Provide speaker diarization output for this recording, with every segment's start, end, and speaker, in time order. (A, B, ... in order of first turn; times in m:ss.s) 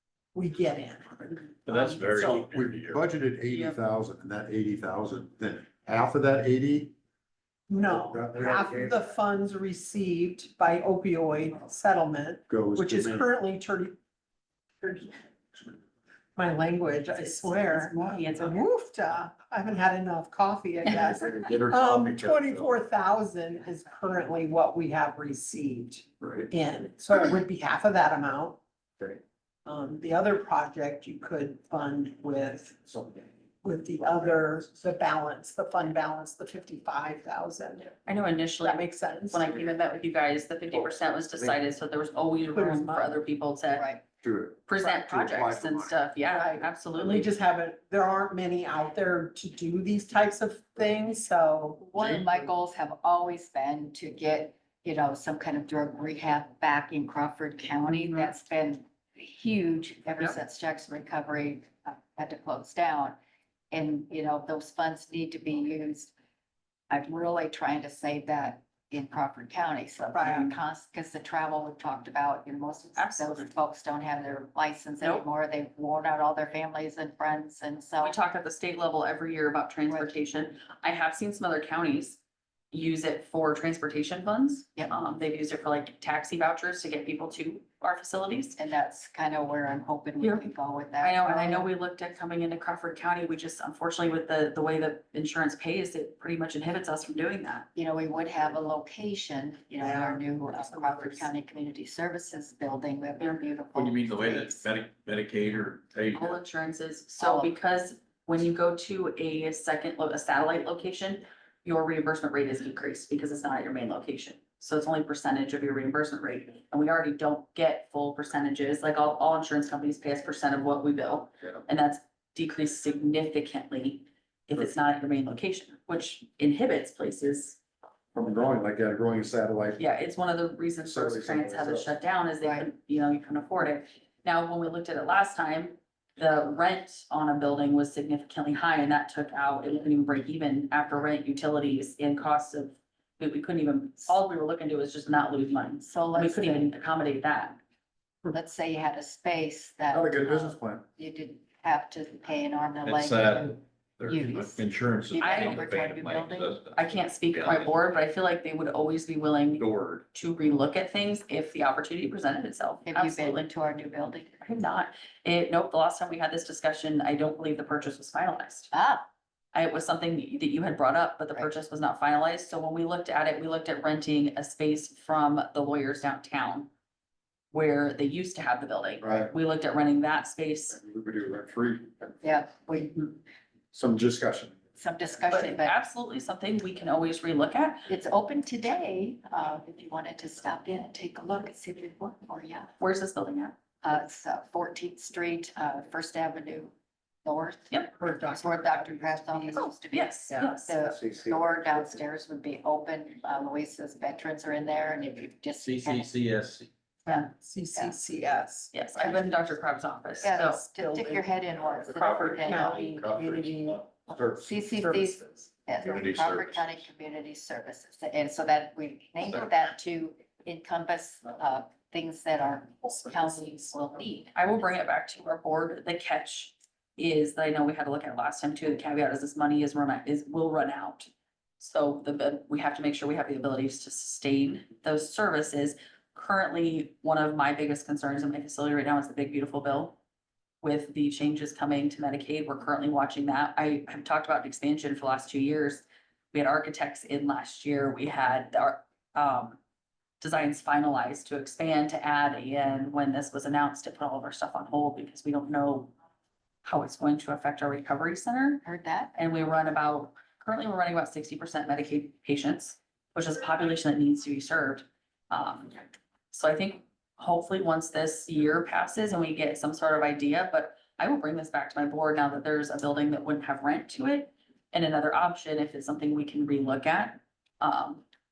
0:00.3-0:01.5 A
0:01.7-0:03.0 B
0:02.1-0:06.9 C
0:03.4-0:03.8 D
0:07.7-0:14.0 A
0:07.9-0:09.0 C
0:12.5-0:13.3 C
0:14.8-0:15.7 A
0:16.4-0:28.6 A
0:17.1-0:18.6 D
0:21.2-0:22.6 C
0:29.6-0:37.9 A
0:38.0-0:44.0 D
0:38.6-0:39.5 A
0:42.5-0:43.2 A
0:43.7-0:44.0 E
0:44.2-0:45.9 C
0:44.7-0:47.3 D
0:46.3-0:51.8 A
0:51.8-1:03.2 E
1:03.7-1:06.1 E
1:06.9-1:18.2 E
1:10.1-1:10.5 A
1:12.9-1:13.5 D
1:15.0-1:15.2 D
1:18.0-1:22.2 D
1:19.8-1:20.1 E
1:22.7-1:28.6 D
1:28.6-1:31.7 E
1:30.2-1:37.7 D
1:37.7-1:44.7 E
1:39.8-1:41.2 A
1:43.7-1:46.4 B
1:46.1-2:07.6 D
1:47.2-1:47.5 E
2:08.1-2:09.8 C
2:09.8-2:27.6 D
2:10.8-2:11.9 C
2:12.4-2:12.7 E
2:25.8-2:26.7 E
2:28.3-2:36.7 E
2:29.9-2:30.8 C
2:32.8-2:37.8 B
2:35.2-2:35.6 D
2:36.7-2:43.4 D
2:39.6-2:40.0 B
2:42.8-2:44.4 E
2:44.4-2:48.7 D
2:48.7-2:49.0 E
2:49.5-2:56.7 D
2:57.5-3:00.8 D
2:59.0-2:59.3 C
3:00.7-3:02.2 C
3:02.2-3:03.1 E
3:03.7-3:04.6 C
3:04.8-3:05.8 E
3:05.3-3:07.9 D
3:07.9-3:12.7 E
3:12.8-3:13.5 D
3:13.8-3:16.7 E
3:17.2-3:26.1 E
3:18.0-3:19.7 A
3:19.6-3:20.8 D
3:20.3-3:20.6 A
3:20.8-3:21.8 C
3:25.6-3:26.7 B
3:27.1-3:28.0 E
3:27.1-3:29.2 A
3:28.7-3:30.6 D
3:30.2-3:32.9 E
3:30.2-3:33.8 A
3:31.8-3:33.5 B
3:34.1-3:44.3 E
3:35.8-3:36.9 B
3:44.3-4:00.0 D
4:00.6-4:09.6 D
4:10.2-4:15.9 D
4:16.6-4:18.6 D
4:18.6-4:19.2 E
4:19.1-4:25.8 D
4:26.3-4:38.0 D